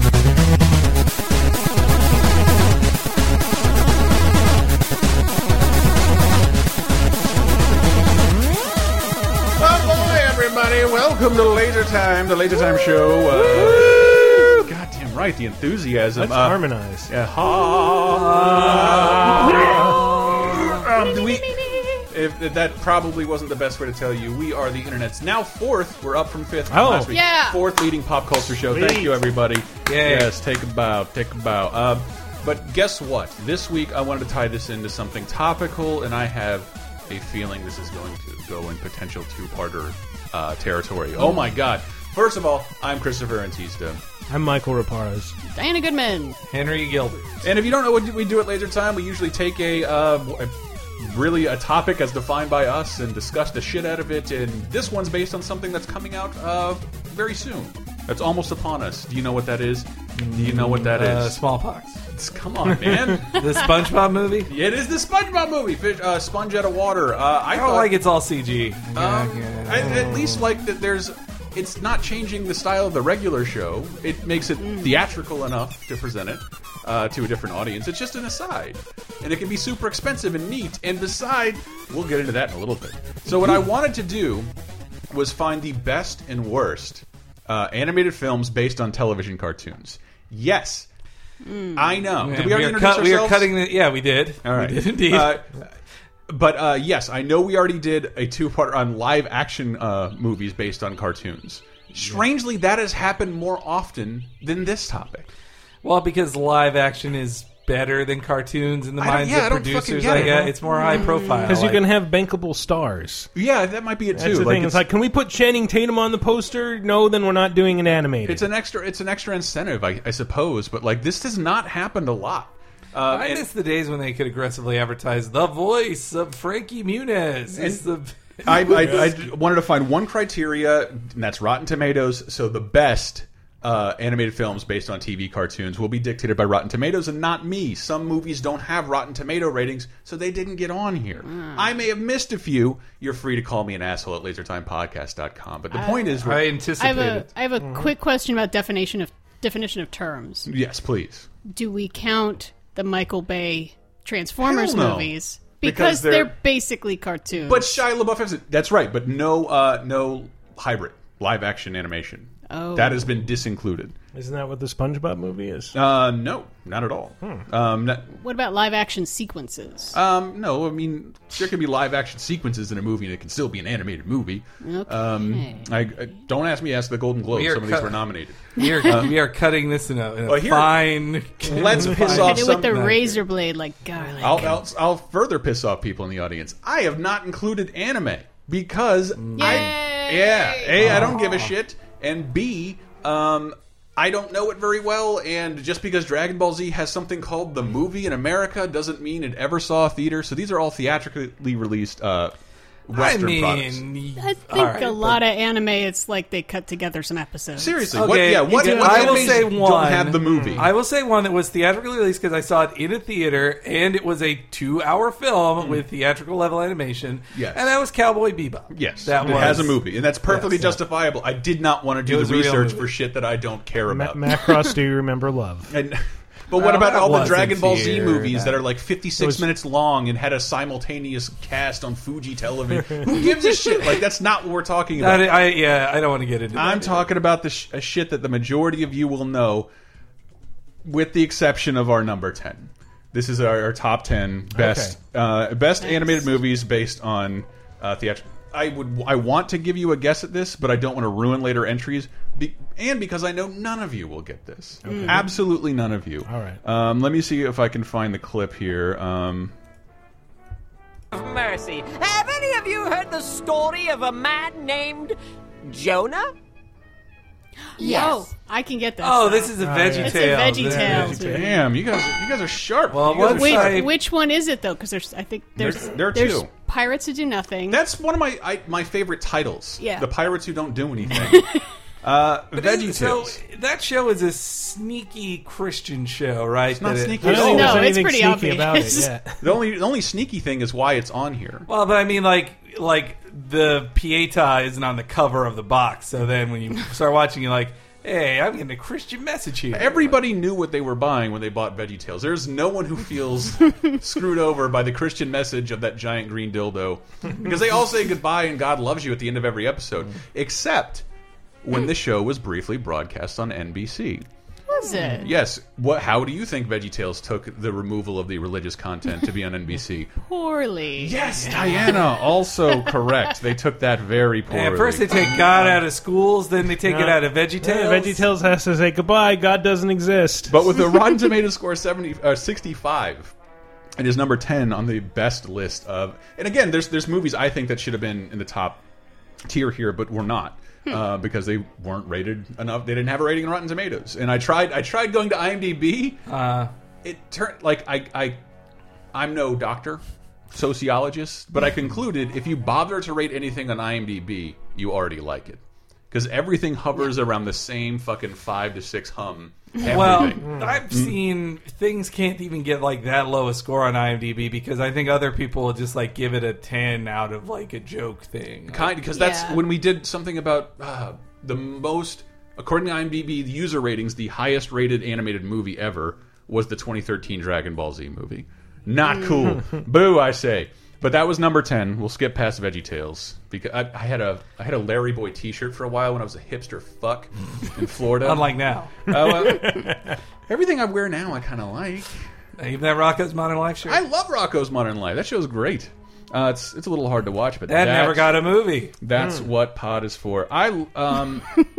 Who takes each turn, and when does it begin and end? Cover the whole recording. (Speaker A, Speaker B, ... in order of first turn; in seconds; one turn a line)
Speaker A: 9.6-44.0
Speaker B: 16.2-17.1
Speaker C: 18.1-20.9
Speaker B: 26.7-27.1
Speaker D: 27.1-27.6
Speaker B: 28.7-29.2
Speaker C: 29.9-30.3
Speaker D: 41.2-41.6
Speaker B: 44.3-45.4
Speaker D: 45.5-46.4
Speaker C: 46.5-47.5
Speaker A: 47.4-61.4
Speaker C: 60.1-62.0
Speaker A: 62.1-63.4
Speaker B: 62.6-63.2
Speaker C: 63.4-64.5
Speaker A: 64.5-67.9
Speaker C: 67.5-70.2
Speaker A: 69.0-84.5
Speaker B: 69.7-70.4
Speaker D: 74.6-75.0
Speaker A: 85.1-90.9
Speaker D: 91.4-92.0
Speaker A: 91.8-93.5
Speaker C: 92.2-95.4
Speaker A: 94.4-95.6
Speaker A: 96.3-105.3
Speaker B: 102.0-102.2
Speaker C: 105.8-111.8
Speaker A: 109.0-110.5
Speaker B: 110.1-110.5
Speaker D: 110.7-111.5
Speaker B: 111.5-113.3
Speaker A: 113.3-114.8
Speaker B: 114.1-118.5
Speaker A: 118.2-123.5
Speaker C: 123.1-129.2
Speaker A: 127.5-127.8
Speaker A: 128.4-146.5
Speaker B: 128.8-129.1
Speaker D: 141.2-141.7
Speaker D: 145.7-146.2
Speaker C: 146.2-147.3
Speaker D: 146.8-150.5
Speaker B: 147.6-147.9
Speaker A: 150.5-151.3
Speaker D: 151.5-157.8
Speaker A: 154.4-156.3
Speaker A: 157.3-163.9
Speaker D: 162.5-163.3
Speaker B: 164.1-165.8
Speaker A: 165.7-168.1
Speaker D: 168.2-170.0
Speaker A: 169.9-179.2
Speaker D: 174.6-175.7
Speaker C: 177.3-183.2
Speaker D: 178.6-179.0
Speaker A: 180.3-180.9
Speaker A: 181.4-183.1
Speaker D: 182.1-184.6
Speaker A: 184.2-202.3
Speaker C: 189.2-189.8
Speaker D: 189.4-191.3
Speaker C: 190.8-191.4
Speaker A: 202.9-203.8
Speaker C: 202.9-205.2
Speaker D: 204.2-208.0
Speaker A: 207.6-210.7
Speaker C: 207.9-220.7
Speaker D: 208.8-209.2
Speaker A: 215.6-215.8
Speaker A: 217.3-217.7
Speaker A: 218.7-224.2
Speaker B: 219.2-219.6
Speaker C: 222.1-222.9
Speaker B: 223.9-225.7
Speaker A: 225.7-235.4
Speaker C: 226.6-228.6
Speaker B: 229.2-229.5
Speaker C: 235.0-237.1
Speaker A: 236.5-239.7
Speaker A: 240.8-259.5
Speaker B: 244.5-245.0
Speaker D: 245.8-246.2
Speaker B: 254.8-255.2
Speaker D: 254.9-255.2
Speaker B: 256.2-256.6
Speaker E: 261.1-266.3
Speaker D: 267.8-271.6
Speaker E: 267.8-268.3
Speaker C: 269.0-271.4
Speaker B: 269.6-271.2
Speaker A: 270.8-273.9
Speaker C: 272.9-273.9
Speaker D: 273.2-277.8
Speaker A: 275.6-276.5
Speaker A: 277.7-281.4
Speaker D: 279.8-280.1
Speaker D: 281.1-281.7
Speaker A: 282.0-283.4
Speaker C: 282.5-287.7
Speaker A: 286.7-287.9
Speaker B: 287.2-289.4
Speaker D: 287.4-289.1
Speaker A: 289.4-291.7
Speaker C: 291.7-300.2
Speaker A: 299.7-311.1
Speaker A: 311.6-314.3
Speaker D: 314.7-315.3
Speaker A: 315.1-320.2
Speaker D: 320.2-321.2
Speaker A: 321.0-325.8
Speaker C: 321.4-322.0
Speaker C: 324.5-328.3
Speaker B: 326.8-330.6
Speaker A: 330.5-333.3
Speaker A: 334.0-338.8
Speaker A: 339.5-346.2
Speaker C: 346.3-346.7
Speaker A: 347.0-348.4
Speaker A: 349.1-361.2
Speaker C: 359.9-368.9
Speaker B: 360.4-360.7
Speaker A: 368.7-392.3
Speaker D: 369.1-369.6
Speaker D: 379.1-379.5
Speaker C: 388.2-389.1
Speaker B: 389.2-389.9
Speaker C: 392.6-394.0
Speaker A: 393.9-398.3
Speaker C: 397.7-399.0
Speaker A: 399.0-401.5
Speaker B: 399.2-399.5